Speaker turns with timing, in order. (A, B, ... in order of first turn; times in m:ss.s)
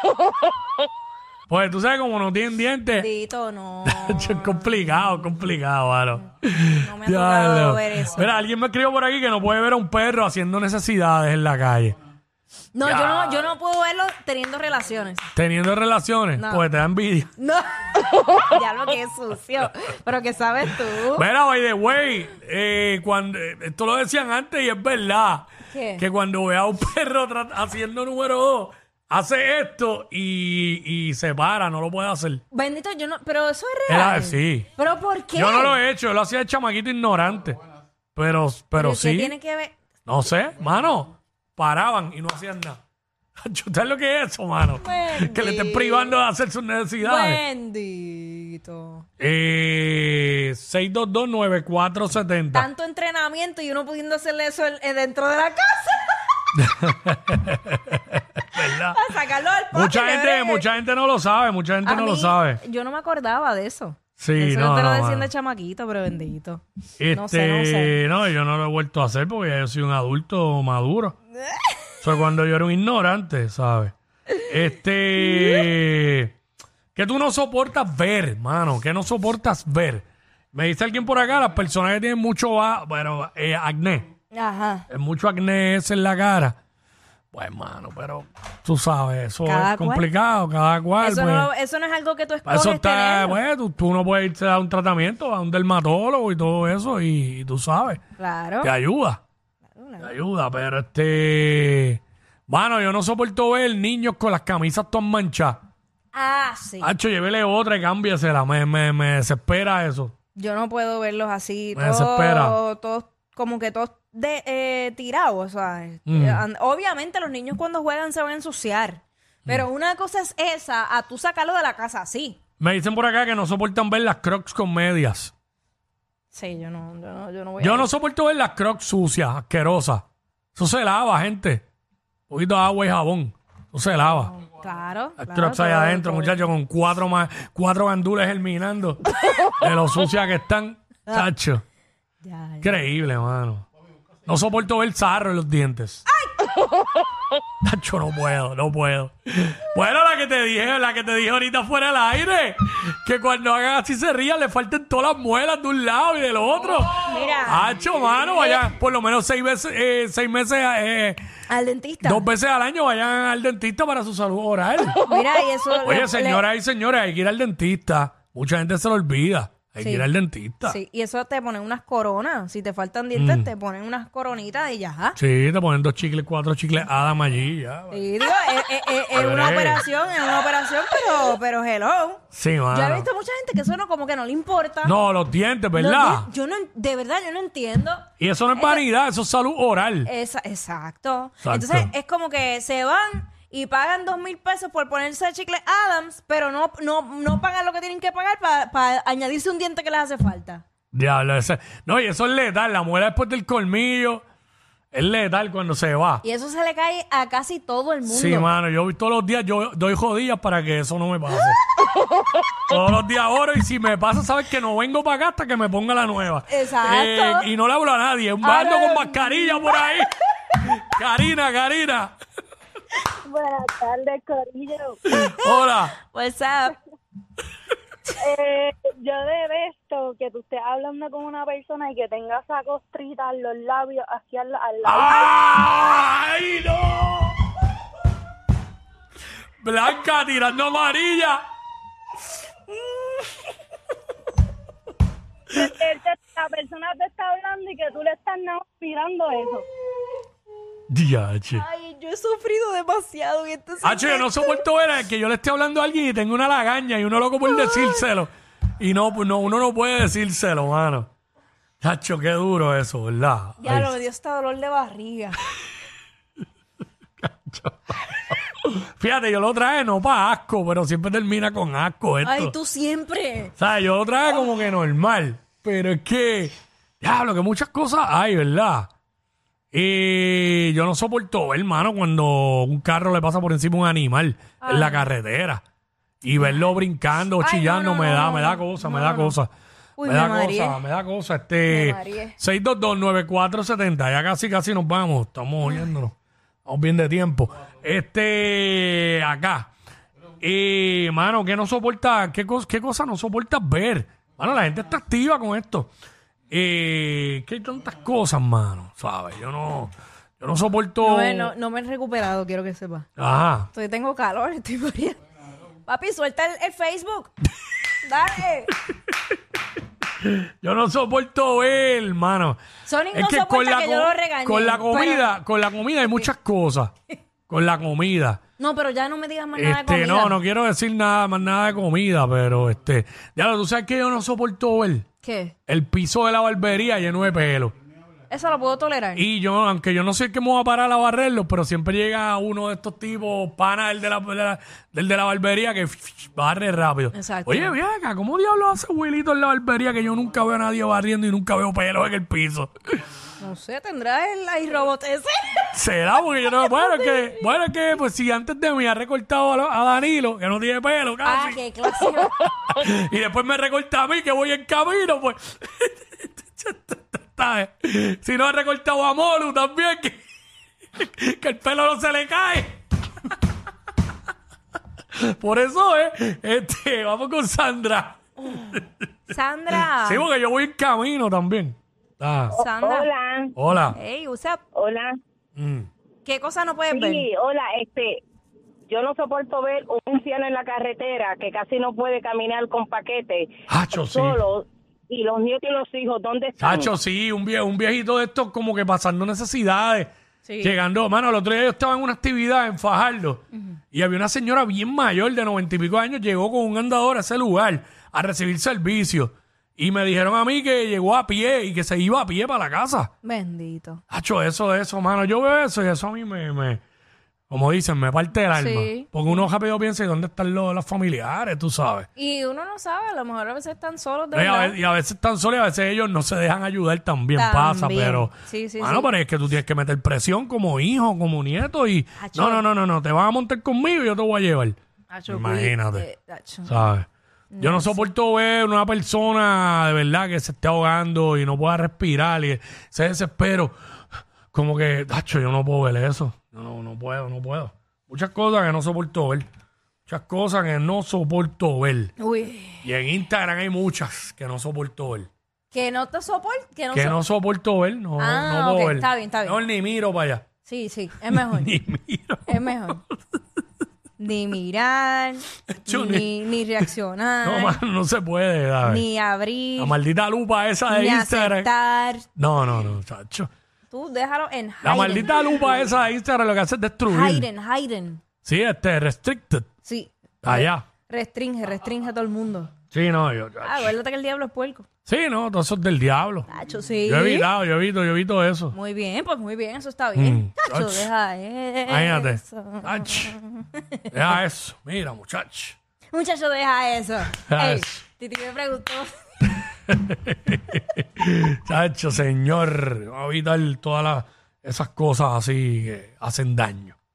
0:01.5-0:03.1 A
0:02.9-0:04.8 B
0:03.8-0:12.0 A
0:06.8-0:08.3 B
0:12.7-0:15.3 B
0:12.8-0:13.5 A
0:15.3-0:17.3 A
0:16.4-0:16.6 B
0:17.4-0:21.2 B
0:21.1-0:32.4 A
0:25.7-0:26.0 B
0:32.5-0:35.8 B
0:33.9-0:34.7 A
0:35.3-0:37.6 A
0:38.1-0:39.3 A
0:38.8-0:39.8 B
0:40.0-0:42.8 A
0:43.4-0:47.4 A
0:44.8-0:46.2 B
0:47.0-0:49.0 B
0:49.2-0:52.7 A
0:52.5-0:56.2 B
0:56.6-0:59.0 A
0:58.6-1:00.7 B
0:59.7-1:02.6 A
1:01.8-1:08.0 B
1:04.2-1:05.3 A
1:07.0-1:11.1 A
1:11.5-1:11.8 B
1:12.0-1:13.9 A
1:14.4-1:16.3 A
1:16.9-1:24.1 A
1:24.3-1:24.8 B
1:24.9-1:26.6 A
1:27.3-1:31.5 A
1:29.4-1:30.0 B
1:31.0-1:33.4 B
1:32.4-1:38.0 A
1:38.2-1:38.7 B
1:38.6-1:39.2 A
1:39.7-1:40.1 B
1:40.0-1:45.6 A
1:46.1-1:46.9 B
1:46.8-1:50.1 A
1:50.3-2:02.4 B
1:51.7-1:52.6 A
1:56.1-1:56.4 A
2:02.6-2:05.3 A
2:06.3-2:07.9 B
2:07.6-2:10.0 A
2:10.5-2:11.6 A
2:12.3-2:14.3 A
2:14.2-2:16.5 B
2:15.2-2:19.0 A
2:19.6-2:21.6 A
2:22.2-2:22.7 B
2:22.6-2:23.6 A
2:24.2-2:26.0 A
2:26.1-2:26.5 B
2:27.6-2:41.2 A
2:37.0-2:37.7 B
2:41.5-2:42.3 B
2:42.0-2:45.0 A
2:45.0-2:46.4 B
2:45.8-2:50.8 A
2:49.8-2:50.1 B
2:50.6-2:55.2 B
2:53.1-2:53.5 A
2:55.2-2:58.0 A
2:57.9-3:04.9 B
2:59.1-2:59.8 A
3:02.3-3:03.1 A
3:04.8-3:06.3 A
3:05.7-3:08.8 B
3:08.2-3:10.1 A
3:10.0-3:20.6 B
3:11.4-3:11.9 A
3:20.9-3:24.2 A
3:24.9-3:26.2 A
3:26.2-3:28.5 B
3:28.0-3:31.6 A
3:32.7-3:42.2 A
3:36.5-3:37.5 B
3:38.4-3:39.8 B
3:43.3-3:45.0 C
3:45.1-3:46.0 A
3:45.1-3:46.7 B
3:48.2-3:55.3 C
3:54.8-3:57.4 A
3:59.6-4:01.4 A
4:02.8-4:03.2 B
4:05.5-4:09.6 C
4:10.9-4:11.6 A
4:11.5-4:14.6 B
4:13.8-4:21.1 A
4:17.5-4:18.0 B
4:21.8-4:23.9 A
4:23.6-4:25.4 B
4:27.2-4:32.5 A
4:32.2-4:33.5 B
4:33.6-4:38.9 A
4:39.7-4:45.6 A
4:44.6-4:45.1 B
4:46.2-4:49.5 A
4:47.4-4:49.4 B
4:50.0-4:50.8 B
4:50.0-4:56.1 A
4:51.7-4:52.4 B
4:56.6-4:59.7 A
5:00.4-5:05.9 A
5:06.5-5:11.5 A
5:11.0-5:13.1 B
5:13.2-5:13.7 A
5:13.7-5:15.2 B
5:15.8-5:17.3 B
5:18.0-5:18.8 B
5:20.2-5:22.6 A
5:22.8-5:25.3 B
5:23.1-5:26.9 A
5:26.0-5:26.3 B
5:27.5-5:28.4 A
5:28.6-5:30.4 B
5:29.6-5:35.0 A
5:35.2-5:35.5 B
5:35.7-5:37.7 A
5:38.3-5:39.2 B
5:39.2-5:52.7 A
5:47.1-5:47.8 B
5:53.4-5:55.7 B
5:55.7-6:01.6 A
5:56.5-5:57.4 B
6:01.2-6:02.4 B
6:02.7-6:10.2 A
6:11.0-6:13.4 A
6:15.1-6:19.0 A
6:19.3-6:20.3 B
6:19.7-6:22.6 A
6:22.5-6:23.1 B
6:22.5-6:23.5 C
6:23.6-6:24.0 A
6:23.9-6:24.6 B
6:24.7-6:25.2 C
6:25.6-6:25.9 A
6:26.2-6:27.3 B
6:26.9-6:28.2 C
6:28.9-6:33.5 C
6:33.7-6:34.4 A
6:34.4-6:36.6 C
6:36.6-6:40.1 A
6:40.4-6:40.7 B
6:40.6-6:53.1 A
6:53.2-6:54.0 B
6:54.1-6:56.8 A
6:57.5-7:02.1 A
6:58.5-6:59.4 B
7:02.2-7:04.8 B
7:04.3-7:14.8 A
7:07.4-7:09.1 B
7:12.2-7:12.6 B
7:15.1-7:16.8 B
7:15.3-7:16.0 A
7:16.6-7:17.1 A
7:17.5-7:18.0 B
7:17.6-7:23.7 A
7:24.5-7:29.4 A
7:30.1-7:32.1 A
7:32.2-7:32.8 B
7:32.8-7:35.3 A
7:35.7-7:37.2 B
7:36.9-7:40.4 A
7:38.2-7:39.6 B
7:40.6-7:41.7 B
7:41.3-7:43.4 A
7:42.5-7:43.0 B
7:44.2-7:47.8 B
7:45.7-7:46.8 A
7:47.4-7:49.0 A
7:48.8-7:50.0 B
7:49.8-7:51.7 A
7:50.9-7:52.2 B
7:52.4-7:53.5 A
7:53.9-7:55.8 B
7:54.8-7:57.5 A
7:57.1-7:58.2 B
7:58.4-7:59.7 A
7:59.8-8:02.7 B
8:00.4-8:00.8 A
8:02.9-8:03.9 A
8:03.6-8:04.9 B
8:05.0-8:06.5 A
8:06.5-8:07.5 B
8:07.0-8:08.7 A
8:08.7-8:14.0 B
8:10.2-8:11.1 A
8:11.9-8:13.3 A
8:14.1-8:15.8 A
8:16.1-8:19.1 B
8:17.4-8:18.0 A
8:19.9-8:27.0 A